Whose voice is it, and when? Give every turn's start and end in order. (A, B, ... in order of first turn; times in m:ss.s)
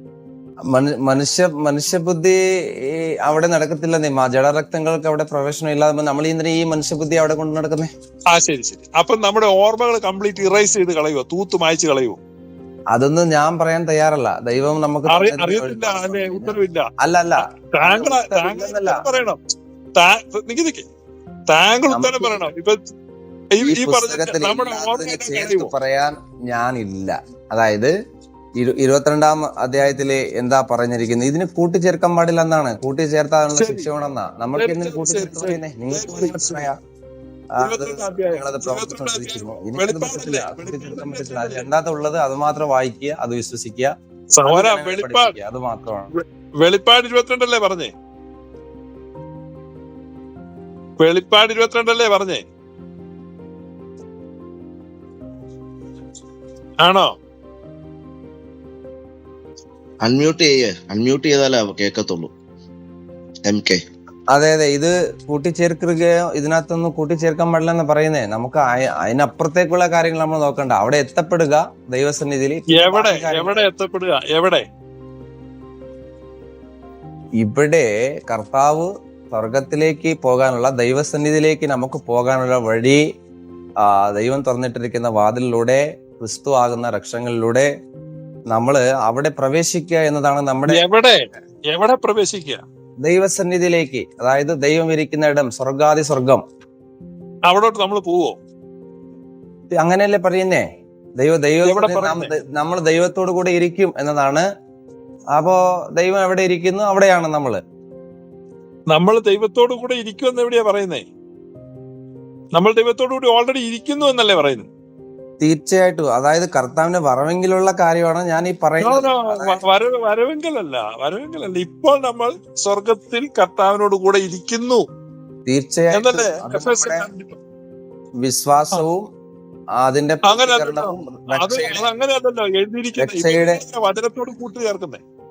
0:00.7-0:07.9 A
0:08.3-0:12.2 B
0:12.9-0:19.0 A
0:15.1-0:19.4 B
0:20.0-0:20.9 B
0:21.5-0:22.8 B
0:21.9-0:22.5 A
0:23.5-0:25.7 B
0:23.6-0:27.9 A
0:28.6-0:36.8 A
0:33.5-0:33.9 B
0:34.5-0:36.7 B
0:37.6-0:43.9 A
0:37.6-0:41.6 B
0:44.3-0:45.3 B
0:44.4-0:46.1 A
0:46.1-0:47.9 B
0:51.0-0:52.4 B
0:56.8-0:57.1 B
1:00.0-1:02.3 C
1:03.4-1:03.8 C
1:04.3-1:13.6 A
1:12.7-1:14.6 B
1:17.4-1:23.0 A
1:23.8-1:27.7 A
1:28.5-1:30.8 A
1:30.7-1:32.6 B
1:33.0-1:36.4 A
1:37.5-1:38.4 B
1:39.7-1:40.6 A
1:41.2-1:44.4 A
1:41.6-1:42.3 B
1:45.3-1:47.6 A
1:48.9-1:51.1 B
1:52.5-1:54.7 B
1:55.4-1:59.6 A
1:58.8-2:04.8 B
2:05.4-2:07.1 A
2:05.9-2:07.4 B
2:08.2-2:09.1 A
2:09.8-2:11.9 A
2:10.2-2:15.0 B
2:13.0-2:13.6 A